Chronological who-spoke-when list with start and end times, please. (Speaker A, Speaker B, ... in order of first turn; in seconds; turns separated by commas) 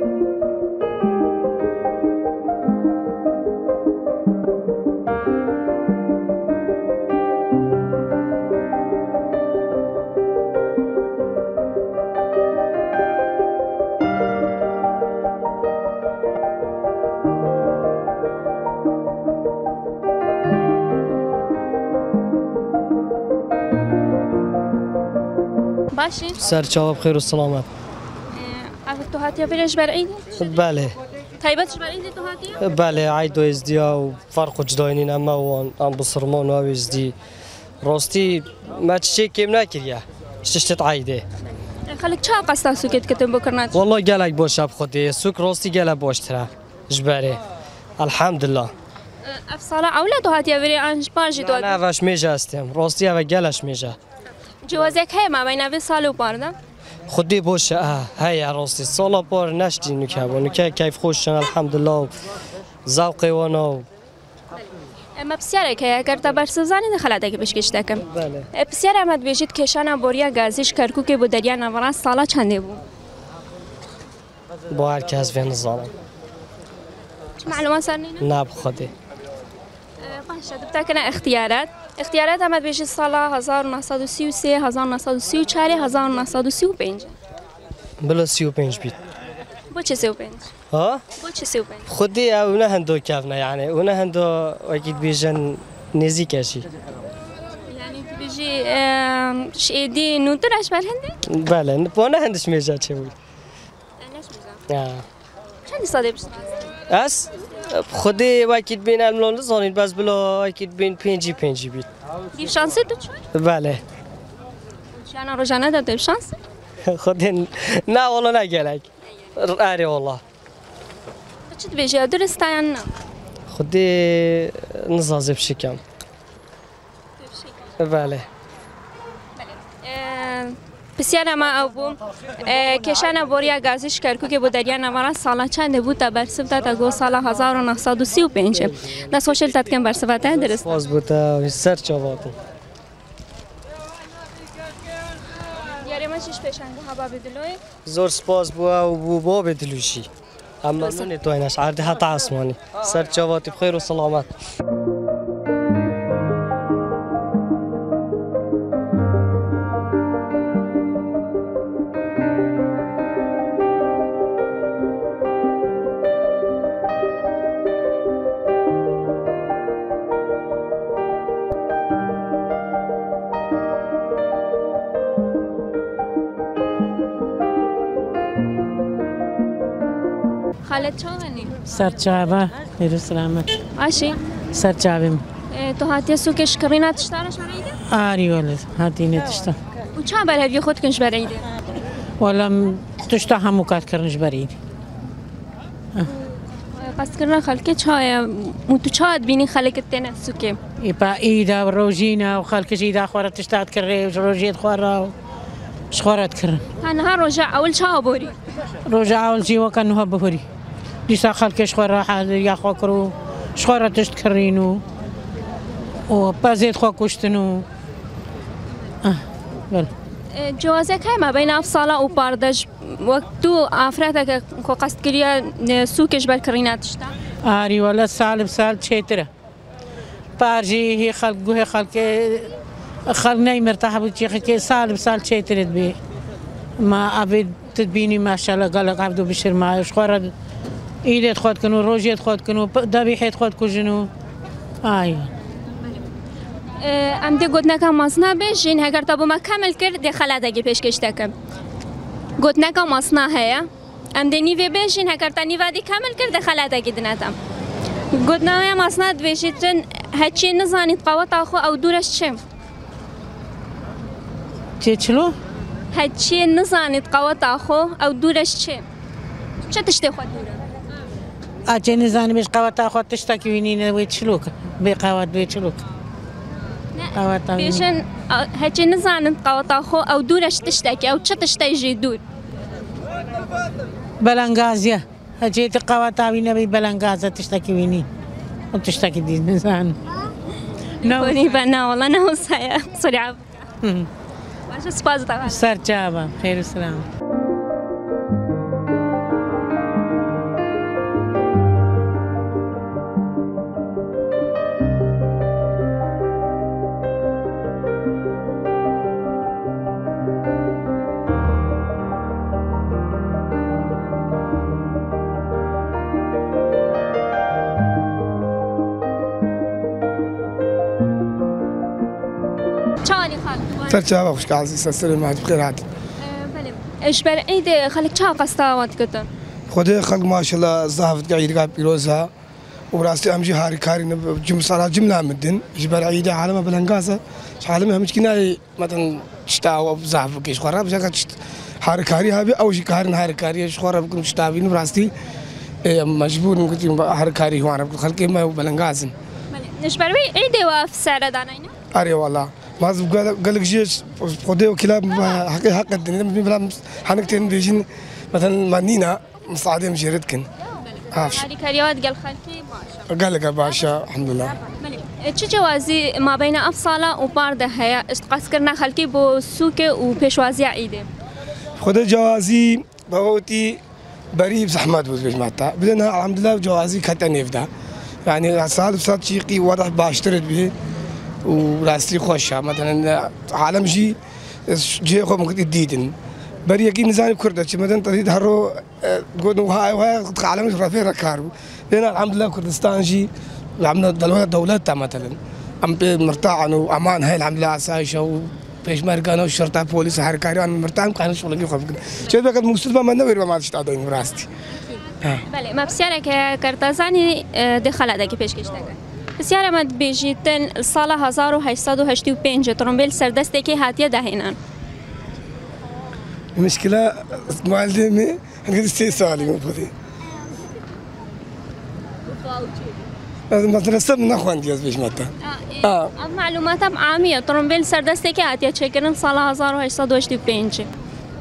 Speaker A: 25.9-26.4, Speaker B: 26.4-27.7, Speaker A: 28.4-30.3, Speaker B: 30.4-30.9, Speaker A: 31.4-32.6, Speaker B: 32.6-37.1, Speaker B: 37.8-41.2, Speaker A: 41.9-43.8, Speaker B: 43.7-47.4, Speaker B: 48.0-48.7, Speaker A: 49.2-51.8, Speaker B: 51.4-54.0, Speaker A: 54.6-56.5, Speaker B: 57.1-62.1, Speaker B: 62.9-63.9, Speaker A: 64.5-72.8, Speaker B: 68.1-68.5, Speaker B: 74.7-75.9, Speaker A: 77.4-78.3, Speaker B: 78.2-78.9, Speaker A: 80.0-87.2, Speaker B: 88.0-89.0, Speaker A: 89.7-90.5, Speaker B: 90.7-91.0, Speaker A: 91.2-91.9, Speaker B: 91.9-96.7, Speaker A: 97.7-101.2, Speaker B: 101.3-103.1, Speaker A: 104.0-104.6, Speaker B: 104.7-105.0, Speaker A: 105.7-106.6, Speaker B: 106.9-111.9, Speaker A: 112.3-113.2, Speaker B: 113.3-113.8, Speaker A: 115.0-116.4, Speaker B: 116.9-120.2, Speaker A: 121.5-122.9, Speaker B: 123.5-125.8, Speaker A: 127.2-127.8, Speaker B: 127.8-128.3, Speaker A: 129.4-140.7, Speaker B: 140.4-142.3, Speaker A: 145.8-147.6, Speaker B: 147.9-150.1, Speaker B: 150.6-154.3, Speaker A: 180.7-181.5, Speaker C: 181.7-183.5, Speaker A: 183.8-184.2, Speaker C: 184.5-185.2, Speaker A: 185.5-187.8, Speaker C: 187.9-189.6, Speaker A: 190.0-191.4, Speaker C: 192.2-194.6, Speaker A: 196.7-200.6, Speaker C: 200.8-205.1, Speaker C: 205.9-206.6, Speaker A: 206.8-208.3, Speaker C: 208.9-210.4, Speaker C: 211.1-214.8, Speaker C: 216.1-217.7, Speaker C: 219.0-219.9, Speaker A: 220.3-227.1, Speaker C: 227.4-229.3, Speaker C: 230.4-232.5, Speaker C: 233.1-236.0, Speaker C: 236.8-240.3, Speaker C: 241.1-244.1, Speaker C: 244.8-245.3, Speaker A: 246.8-251.3, Speaker A: 252.4-257.4, Speaker A: 258.1-262.4, Speaker C: 264.8-265.3, Speaker A: 265.9-268.8, Speaker A: 269.7-270.6, Speaker C: 271.7-275.8, Speaker A: 276.9-282.2, Speaker C: 277.1-277.9, Speaker C: 284.2-288.1, Speaker C: 288.7-290.0, Speaker A: 291.0-293.6, Speaker C: 291.0-291.4, Speaker C: 293.8-294.1, Speaker A: 294.7-295.6, Speaker C: 295.5-297.1, Speaker A: 323.0-324.1, Speaker D: 323.9-325.9, Speaker A: 326.2-329.3, Speaker D: 329.7-332.3, Speaker D: 332.9-345.1, Speaker D: 345.9-349.1, Speaker A: 349.5-351.7, Speaker D: 351.9-360.5, Speaker A: 360.8-363.1, Speaker D: 361.1-361.5, Speaker D: 363.1-364.5, Speaker A: 364.8-371.1, Speaker D: 371.8-373.8, Speaker D: 374.4-377.7, Speaker D: 378.3-380.7, Speaker D: 381.5-384.2, Speaker D: 384.7-386.1, Speaker D: 386.7-404.5, Speaker A: 404.8-414.6, Speaker D: 416.6-419.9, Speaker D: 423.5-425.3, Speaker A: 425.4-430.9, Speaker D: 425.8-426.1